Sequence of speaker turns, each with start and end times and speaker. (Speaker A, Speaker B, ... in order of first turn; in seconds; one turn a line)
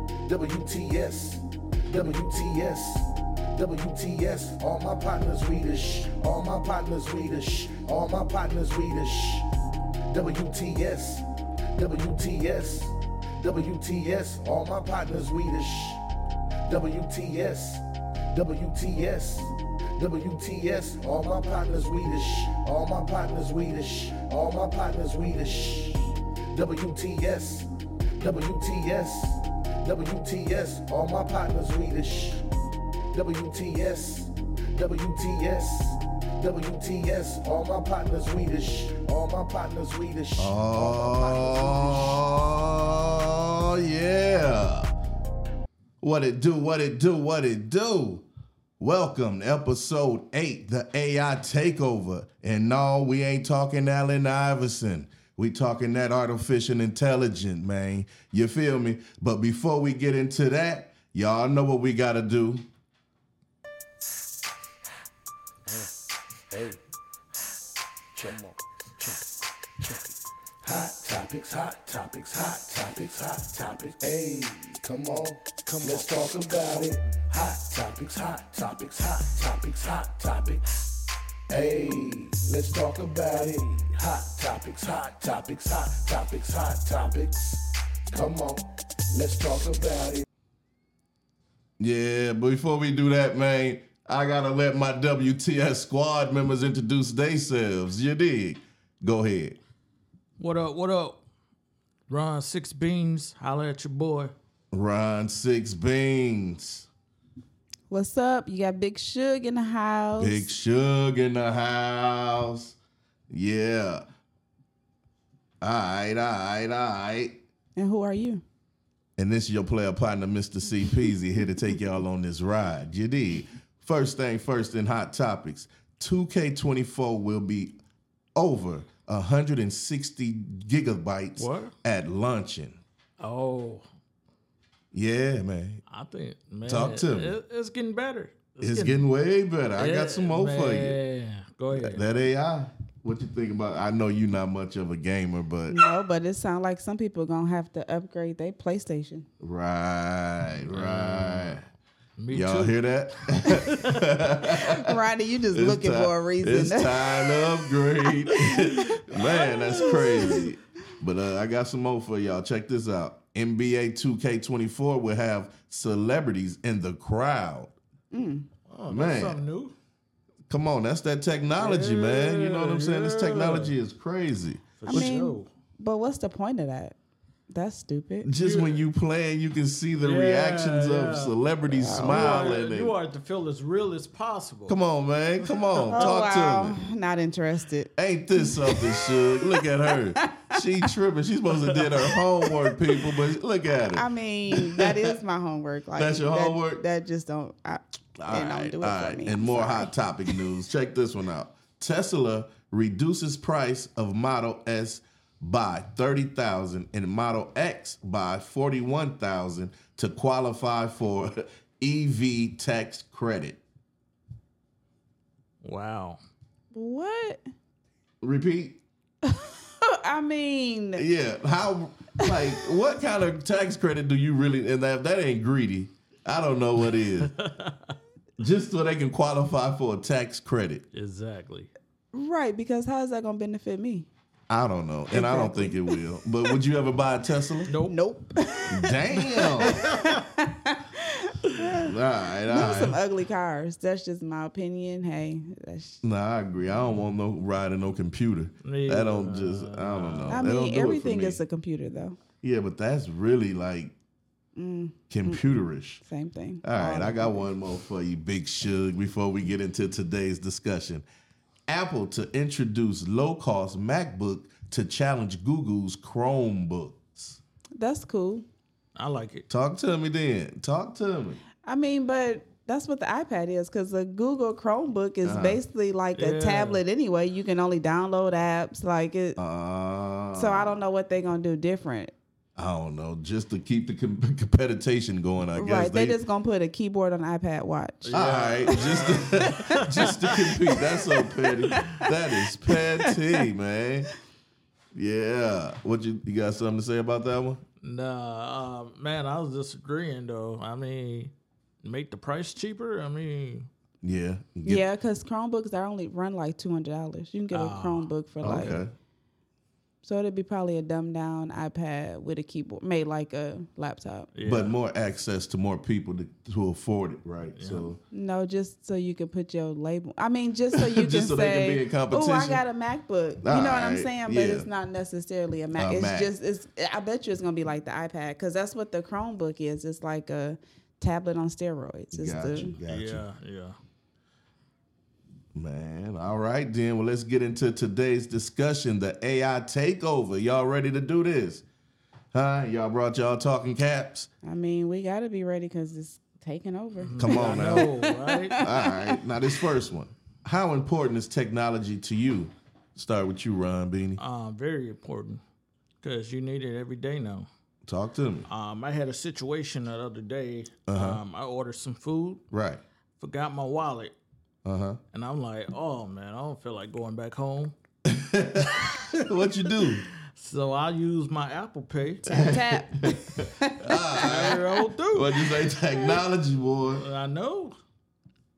Speaker A: 0.2-9.5
Speaker A: 10.1-16.0
Speaker A: 16.6-32.5
Speaker A: 33.1-42.2
Speaker B: 40.4-44.9
Speaker B: 46.0-48.2
Speaker B: 48.8-62.6
Speaker A: 66.5-66.8
Speaker A: 68.1-69.3
Speaker A: 69.8-70.1
Speaker A: 70.6-80.6
Speaker A: 81.5-90.2
Speaker B: 91.8-99.6
Speaker C: 100.4-101.2
Speaker C: 102.1-104.3
Speaker B: 104.7-106.9
Speaker D: 107.9-110.5
Speaker B: 110.2-112.7
Speaker B: 113.3-114.0
Speaker B: 115.6-117.4
Speaker D: 117.8-118.4
Speaker B: 119.2-127.8
Speaker B: 128.3-132.8
Speaker C: 131.4-131.7
Speaker C: 133.2-133.8
Speaker B: 134.9-135.8
Speaker C: 135.9-139.0
Speaker B: 136.7-137.3
Speaker B: 138.6-141.0
Speaker C: 139.8-142.0
Speaker B: 141.7-145.8
Speaker D: 145.7-149.2
Speaker B: 149.4-151.6
Speaker C: 150.7-151.6
Speaker C: 152.2-152.8
Speaker B: 152.3-155.0
Speaker C: 153.4-154.0
Speaker D: 154.4-157.7
Speaker B: 155.5-167.7
Speaker D: 158.3-159.2
Speaker C: 159.1-160.5
Speaker D: 159.7-160.4
Speaker D: 168.1-168.5
Speaker C: 168.7-169.7
Speaker B: 168.9-169.4
Speaker B: 170.5-175.1
Speaker C: 171.6-173.7
Speaker C: 174.8-175.5
Speaker D: 174.8-176.9
Speaker D: 177.5-178.3
Speaker B: 178.2-182.9
Speaker C: 178.4-178.8
Speaker C: 180.0-181.3
Speaker D: 181.7-182.5
Speaker C: 182.0-184.8
Speaker B: 184.7-186.8
Speaker D: 185.9-189.6
Speaker B: 187.9-194.1
Speaker D: 190.2-190.6
Speaker D: 193.9-199.9
Speaker B: 196.0-196.8
Speaker B: 198.2-213.6
Speaker C: 215.6-216.2
Speaker D: 216.7-217.4
Speaker B: 218.2-218.8
Speaker D: 219.2-221.1
Speaker B: 221.0-227.3
Speaker D: 222.2-222.6
Speaker C: 227.2-227.9
Speaker B: 228.4-230.8
Speaker C: 230.9-231.7
Speaker D: 232.1-234.1
Speaker B: 234.5-237.7
Speaker D: 235.1-235.9
Speaker C: 237.7-237.9
Speaker D: 237.8-241.9
Speaker B: 238.7-239.7
Speaker C: 239.6-240.2
Speaker B: 241.8-243.0
Speaker D: 242.5-246.0
Speaker B: 246.0-251.4
Speaker C: 248.6-250.4
Speaker D: 250.3-252.2
Speaker B: 252.4-253.9
Speaker D: 254.6-255.5
Speaker B: 255.1-256.0
Speaker D: 256.0-257.5
Speaker B: 256.6-261.1
Speaker B: 261.7-267.4
Speaker D: 267.8-268.4
Speaker C: 269.0-269.5
Speaker B: 269.5-271.4
Speaker D: 271.6-279.4
Speaker B: 275.2-275.6
Speaker C: 276.2-276.8
Speaker B: 279.4-280.8
Speaker D: 280.3-282.1
Speaker B: 282.6-286.2
Speaker D: 285.6-292.1
Speaker C: 288.1-290.4
Speaker B: 288.1-294.1
Speaker D: 292.6-293.2
Speaker B: 294.9-297.6
Speaker C: 297.8-301.3
Speaker C: 301.8-303.7
Speaker B: 304.0-304.9
Speaker D: 304.6-308.8
Speaker C: 307.5-308.1
Speaker B: 308.4-308.9
Speaker D: 310.0-314.3
Speaker C: 314.4-314.8
Speaker B: 314.4-318.0
Speaker C: 317.6-317.9
Speaker D: 318.1-332.8
Speaker B: 320.7-322.6
Speaker B: 323.4-324.7
Speaker B: 325.7-326.3
Speaker B: 332.1-333.2
Speaker C: 332.9-333.8
Speaker B: 335.6-341.6
Speaker B: 342.3-344.3
Speaker D: 344.4-349.2
Speaker C: 347.0-348.6
Speaker B: 347.2-347.9
Speaker B: 348.6-354.2
Speaker C: 354.2-355.4
Speaker C: 356.0-357.5
Speaker B: 357.9-358.5
Speaker C: 358.5-362.4
Speaker B: 360.9-361.2
Speaker B: 362.5-362.8
Speaker C: 363.2-364.1
Speaker B: 364.7-365.0
Speaker C: 365.1-367.7
Speaker B: 368.1-370.1
Speaker C: 370.3-372.4
Speaker B: 372.2-377.0
Speaker D: 372.4-374.5
Speaker C: 374.2-376.2
Speaker C: 376.9-377.8